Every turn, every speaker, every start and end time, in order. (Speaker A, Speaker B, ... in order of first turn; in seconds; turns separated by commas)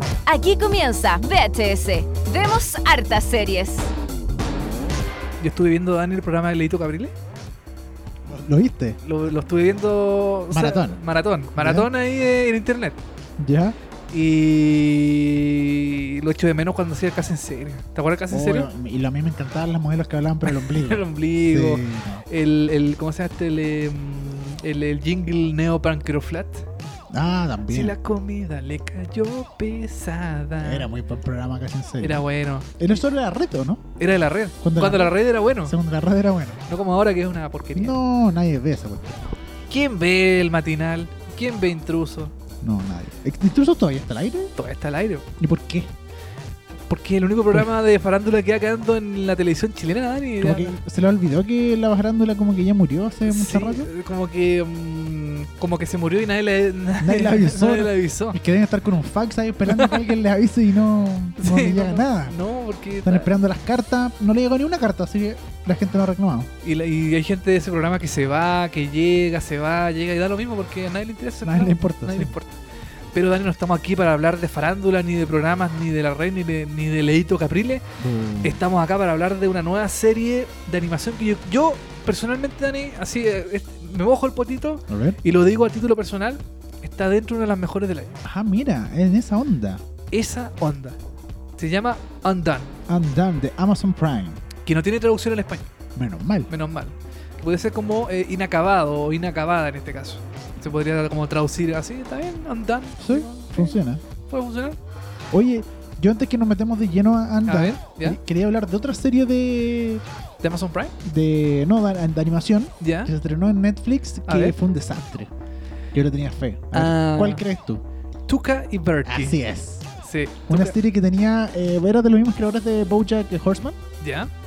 Speaker A: 0.2-3.9, Speaker B: 5.4-7.1, Speaker C: 8.2-9.0, Speaker B: 9.0-13.0, Speaker C: 10.5-11.0, Speaker C: 11.5-11.9, Speaker C: 13.4-13.8, Speaker B: 14.1-18.7, Speaker C: 18.3-22.2, Speaker B: 20.4-26.6, Speaker C: 27.1-28.0, Speaker B: 27.7-30.9, Speaker C: 30.6-32.2, Speaker B: 32.0-32.9, Speaker C: 32.8-33.8, Speaker B: 34.0-35.8, Speaker C: 34.6-36.6, Speaker B: 36.7-38.0, Speaker C: 37.7-39.4, Speaker B: 39.7-42.3, Speaker C: 42.6-44.5, Speaker B: 44.5-45.2, Speaker C: 45.4-45.9, Speaker B: 46.9-50.8, Speaker C: 50.4-53.9, Speaker B: 53.2-58.4, Speaker C: 57.0-62.4, Speaker B: 59.7-60.1, Speaker B: 61.4-63.3, Speaker C: 63.0-66.5, Speaker B: 66.6-72.6, Speaker C: 71.4-72.3, Speaker B: 73.1-77.8, Speaker C: 78.0-78.6, Speaker B: 78.4-88.2, Speaker C: 84.9-85.2, Speaker C: 88.2-89.8, Speaker B: 90.1-91.0, Speaker B: 91.6-92.7, Speaker C: 92.9-94.4, Speaker B: 94.6-95.7, Speaker C: 96.0-96.5, Speaker B: 96.5-104.8, Speaker C: 103.0-104.0, Speaker C: 105.3-110.0, Speaker B: 107.5-108.2, Speaker B: 110.4-110.9, Speaker C: 111.0-115.3, Speaker B: 112.8-113.1, Speaker B: 114.2-114.6, Speaker C: 115.9-117.8, Speaker B: 116.7-117.4, Speaker B: 118.3-119.4, Speaker C: 119.0-119.9, Speaker B: 120.0-120.8, Speaker C: 120.5-123.8, Speaker B: 124.0-124.3